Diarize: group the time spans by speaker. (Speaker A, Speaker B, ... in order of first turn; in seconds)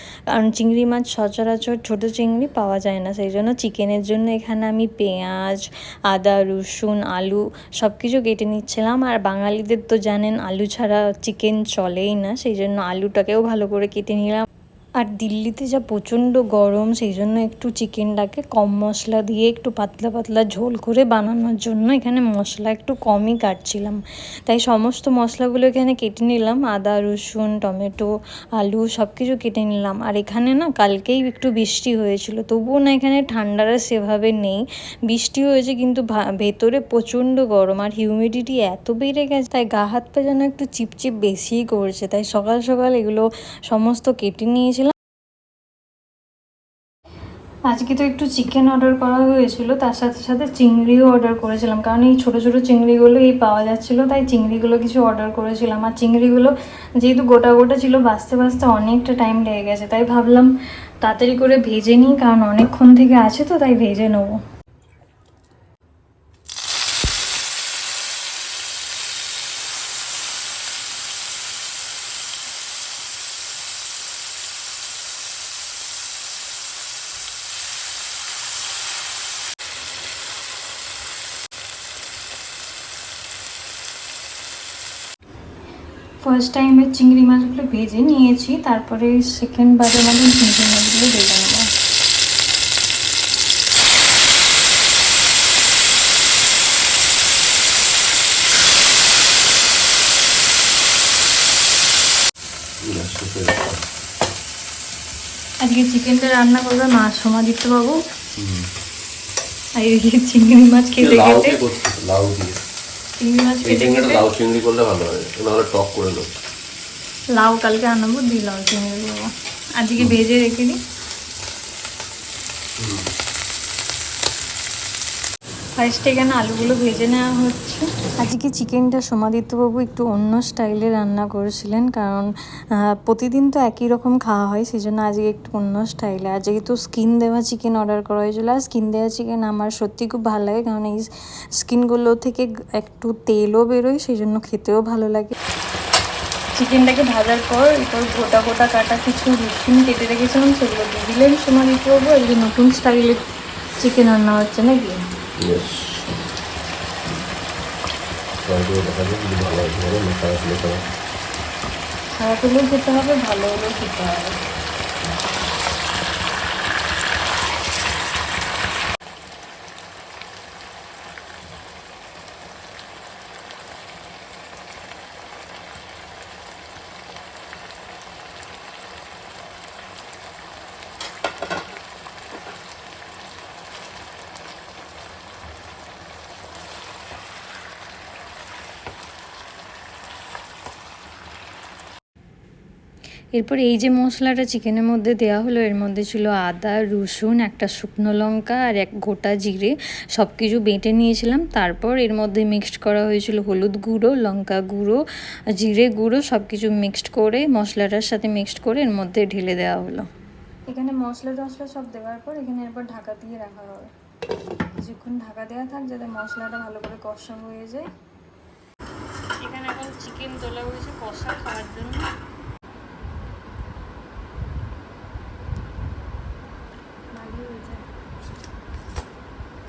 Speaker A: 0.3-14.4, 15.0-44.9, 47.7-60.5, 61.0-64.3, 86.2-91.7, 105.6-108.0, 109.8-111.6, 113.2-114.3, 117.4-119.3, 119.8-120.8, 125.8-132.3, 133.0-145.3, 146.6-153.2, 153.8-155.0, 162.2-164.4, 193.4-205.0, 205.6-210.1, 210.7-213.9, 214.8-217.9, 219.4-222.1, 227.1-227.8
Speaker B: 102.8-103.8, 108.4-108.7, 111.0-112.6, 113.6-116.3, 122.8-123.1, 155.4-156.2, 158.4-160.8